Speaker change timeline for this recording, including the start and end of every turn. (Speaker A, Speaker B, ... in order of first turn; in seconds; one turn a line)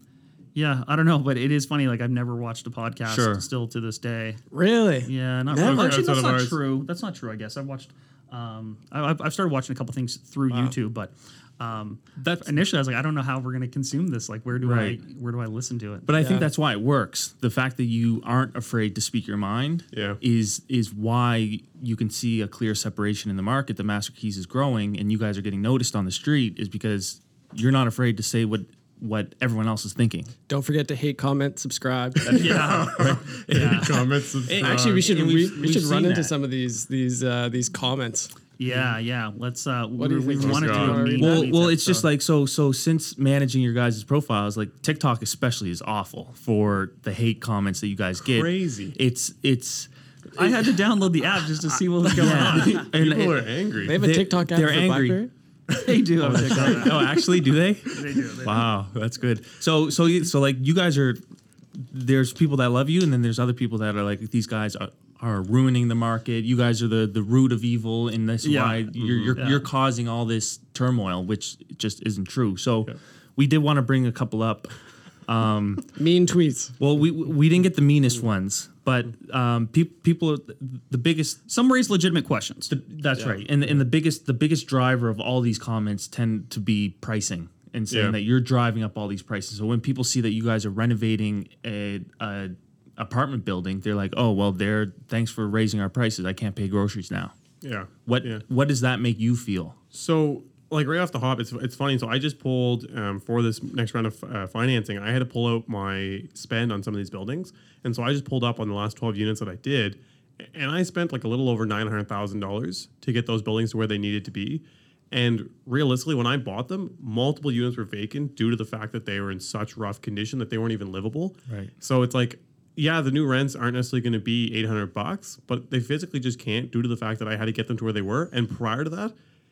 Speaker A: 0.6-4.4
Speaker B: 3.1-3.5
Speaker C: 4.5-5.9
Speaker A: 5.0-16.1
Speaker D: 5.5-6.6
Speaker B: 12.2-12.6
Speaker B: 14.6-15.0
Speaker B: 16.1-30.3
Speaker C: 16.1-16.5
Speaker D: 19.9-20.2
Speaker C: 30.5-32.7
Speaker D: 32.3-35.1
Speaker A: 32.3-33.9
Speaker B: 32.4-36.3
Speaker C: 34.6-38.4
Speaker A: 38.6-42.1
Speaker C: 40.0-41.5
Speaker D: 40.4-41.1
Speaker B: 41.2-50.7
Speaker D: 48.3-49.0
Speaker A: 50.4-52.9
Speaker B: 52.0-61.2
Speaker D: 52.4-54.0
Speaker C: 53.9-55.3
Speaker A: 55.8-57.2
Speaker A: 57.9-58.6
Speaker B: 61.7-75.9
Speaker A: 68.4-69.7
Speaker D: 69.0-69.4
Speaker C: 76.0-76.8
Speaker B: 76.8-81.4
Speaker A: 81.5-82.7
Speaker B: 82.7-97.3
Speaker D: 87.9-88.2
Speaker D: 97.6-98.4
Speaker B: 98.1-99.8
Speaker D: 99.9-129.2
Speaker B: 121.5-121.7